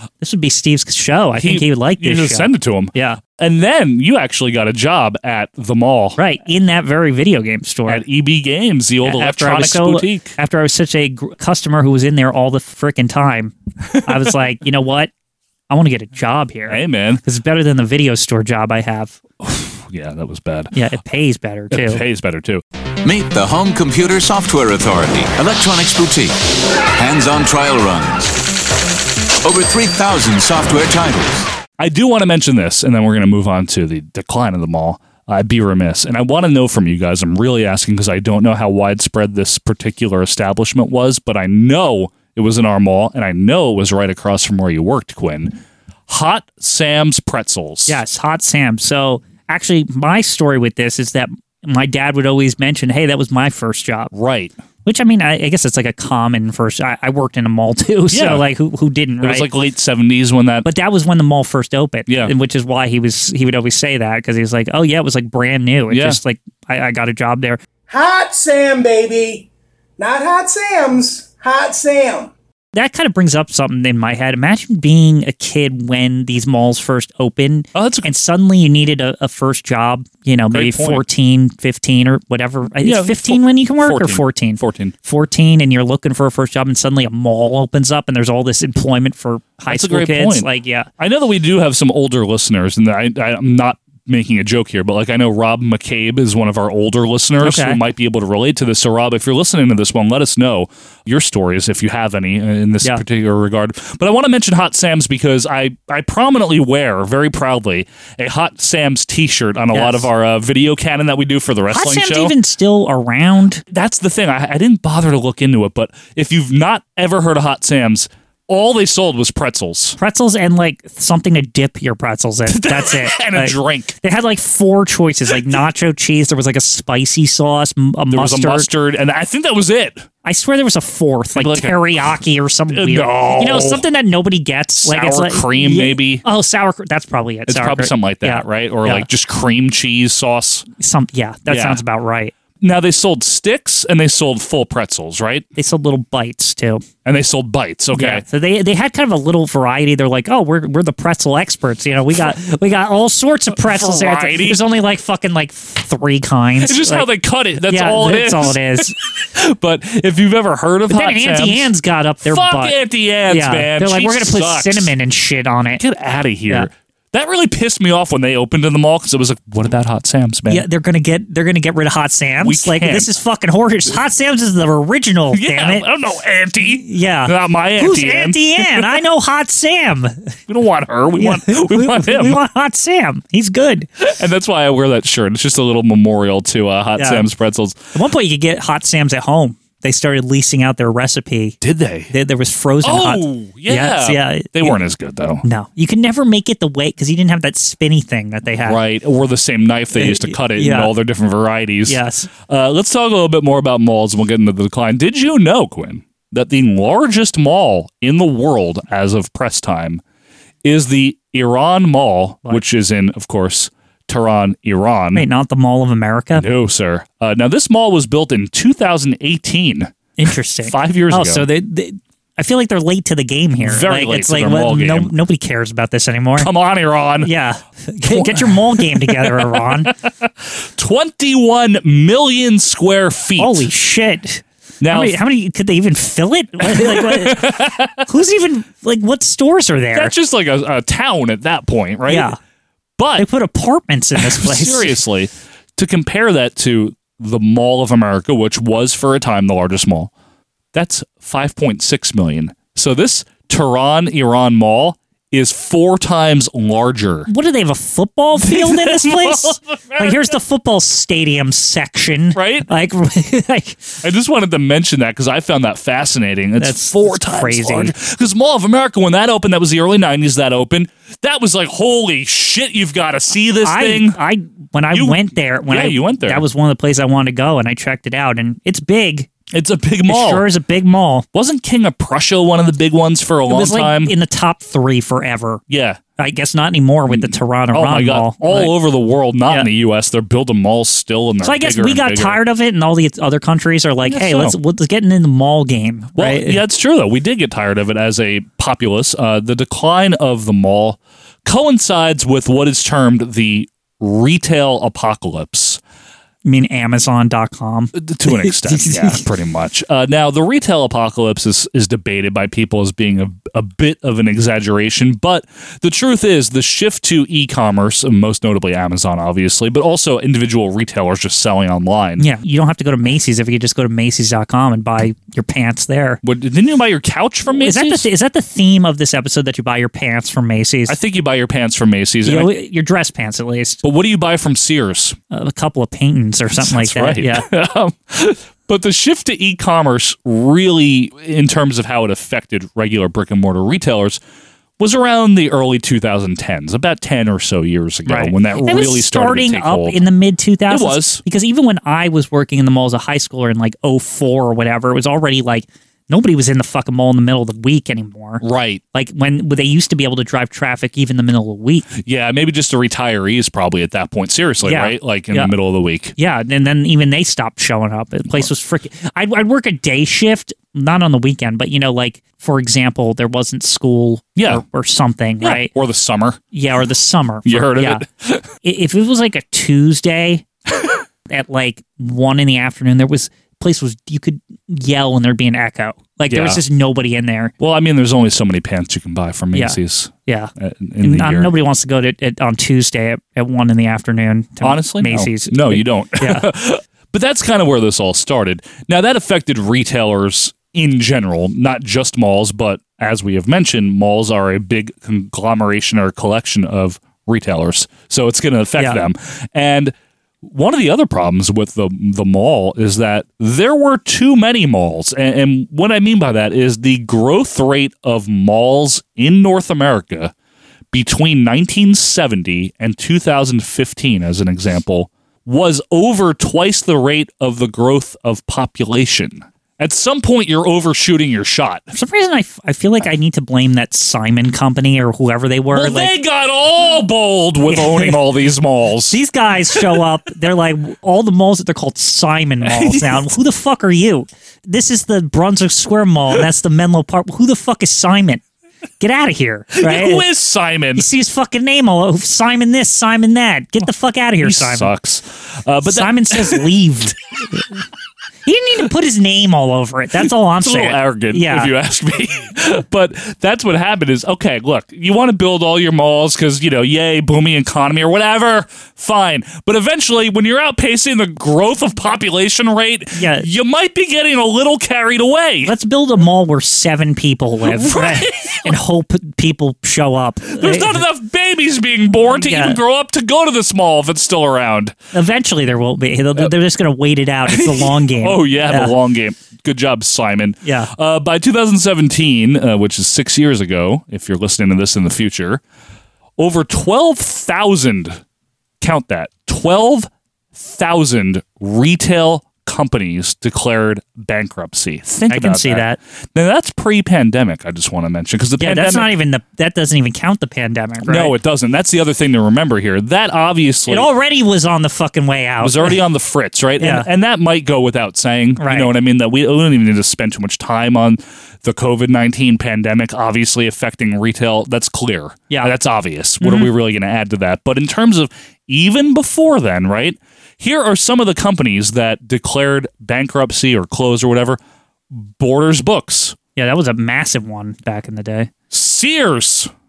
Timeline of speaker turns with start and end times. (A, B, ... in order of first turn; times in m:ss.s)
0:00.2-0:03.2 A
0:01.4-0:06.2 B
0:06.2-0:08.0 A
0:07.9-0:10.3 B
0:09.0-0:15.1 A
0:13.9-0:14.3 B
0:15.7-0:19.2 A
0:16.7-0:17.2 B
0:19.4-0:20.7 B
0:20.7-0:22.0 A
0:21.7-0:22.6 B
0:23.0-0:26.4 C
0:26.9-0:28.4 C
0:29.4-0:31.4 C
0:31.8-0:45.6 B
0:46.1-0:48.0 B
0:47.9-0:54.1 A
0:54.1-0:54.5 B
0:54.8-0:59.4 A
0:58.1-0:58.4 B
0:59.2-1:00.7 B
1:00.6-1:07.6 A
1:02.1-1:02.3 B
1:05.9-1:06.2 B
1:07.9-1:09.4 D
1:10.0-1:12.3 D
1:12.7-1:30.9 A
1:17.7-1:18.1 B
1:20.5-1:21.0 B
1:22.8-1:24.9 B
1:29.7-1:30.5 B
1:31.0-1:52.3 B
1:37.4-1:37.8 A
1:49.7-1:50.1 A
1:51.7-1:53.6 A
1:53.7-2:00.0 B
2:00.0-2:08.7 A
2:02.5-2:04.0 B
2:05.3-2:05.6 B
2:08.1-2:10.0 B
2:10.2-2:19.0 A
2:11.4-2:12.1 B
2:12.7-2:13.8 B
2:14.9-2:16.2 B
2:17.5-2:20.7 B
2:20.8-2:22.3 A
2:21.5-2:21.8 B
2:22.6-2:25.5 B
2:25.6-2:26.8 A
2:27.0-2:28.2 B
2:27.9-2:37.0 A
2:33.5-2:34.6 B
2:36.6-2:41.7 B
2:37.7-2:38.9 A
2:40.9-2:42.8 A
2:42.2-2:44.9 B
2:43.3-2:45.8 A
2:45.8-2:50.6 B
2:50.5-2:55.8 A
2:52.4-2:53.1 B
2:55.3-2:58.9 B
2:56.8-3:00.3 A
3:00.5-3:02.4 B
3:01.2-3:03.9 A
3:04.0-3:07.8 B
3:07.0-3:07.3 A
3:07.9-3:11.6 A
3:11.6-3:12.1 B
3:12.1-3:14.8 A
3:12.8-3:15.4 B
3:15.4-3:18.8 A
3:18.6-3:30.0 B
3:20.0-3:20.9 A
3:21.9-3:22.3 A
3:30.6-3:35.2 B
3:35.1-3:36.4 A
3:36.4-3:39.9 B
3:40.2-3:46.5 A
3:40.6-3:41.4 B
3:43.6-3:45.1 B
3:46.4-3:47.3 B
3:47.2-3:49.9 A
3:48.1-3:53.7 B
3:53.4-3:57.5 A
3:54.8-3:55.2 B
3:56.6-3:58.0 B
3:58.0-4:00.1 A
3:59.9-4:02.3 B
4:02.1-4:02.4 A
4:03.0-4:03.2 B
4:03.2-4:05.0 A
4:04.2-4:10.1 B
4:10.7-4:17.3 B
4:17.3-4:23.8 A
4:18.4-4:20.4 B
4:22.3-4:22.7 B
4:24.0-4:34.2 B
4:26.6-4:27.9 A
4:33.6-4:39.3 A
4:34.9-4:36.4 B
4:39.5-4:40.4 B
4:40.1-4:41.2 A
4:41.3-4:44.1 B
4:43.5-4:45.6 A
4:45.7-4:46.0 B
4:46.2-4:48.7 A
4:47.1-4:52.4 B
4:51.4-4:56.6 A
4:54.0-4:54.6 B
4:56.2-5:05.8 B
5:06.4-5:09.2 A
5:07.9-5:22.2 B
5:22.2-5:26.2 A
5:26.2-5:28.1 B
5:27.5-5:31.0 A
5:30.9-5:32.5 B
5:32.2-5:33.8 A
5:33.8-5:35.2 B
5:35.3-5:37.4 A
5:36.6-5:44.2 B
5:44.8-5:50.0 B
5:48.1-5:58.4 A
5:50.7-5:51.2 B
5:58.4-5:58.8 B
5:58.9-6:01.9 A
6:02.0-6:06.1 B
6:04.6-6:05.5 A
6:06.2-6:15.7 A
6:14.4-6:14.6 B
6:15.4-6:16.4 B
6:16.5-6:18.0 A
6:17.4-6:18.4 B
6:18.6-6:20.4 A
6:21.3-6:27.5 A
6:26.3-6:26.6 B
6:27.6-6:31.5 B
6:29.5-6:30.5 A
6:31.0-6:36.4 A
6:34.6-7:00.3 B
6:48.8-6:49.0 A
7:00.9-7:11.9 B
7:11.9-7:16.1 A
7:15.7-7:19.2 B
7:17.7-7:18.2 A
7:19.1-7:28.4 A
7:19.7-7:20.0 B
7:22.6-7:23.3 B
7:29.0-7:30.2 A
7:29.8-7:31.0 B
7:31.0-7:34.9 A
7:34.4-7:36.7 B
7:35.8-7:37.6 A
7:38.4-7:41.7 A
7:40.6-7:55.7 B
7:53.1-7:53.5 A
7:55.6-8:01.0 A
7:57.6-7:58.7 B
8:00.6-8:04.9 B
8:02.2-8:02.8 A
8:05.1-8:08.9 A
8:07.5-8:15.6 B
8:10.6-8:10.9 A
8:16.4-8:18.2 B
8:18.8-8:29.1 B
8:25.3-8:26.0 A
8:28.6-8:31.3 A
8:31.0-8:34.1 B
8:33.9-8:36.0 A
8:35.6-8:54.6 B
8:36.8-8:37.1 A
8:38.6-8:38.9 A
8:46.4-8:46.7 A
8:55.1-8:56.4 B
8:56.6-8:58.5 A
8:58.7-8:59.7 B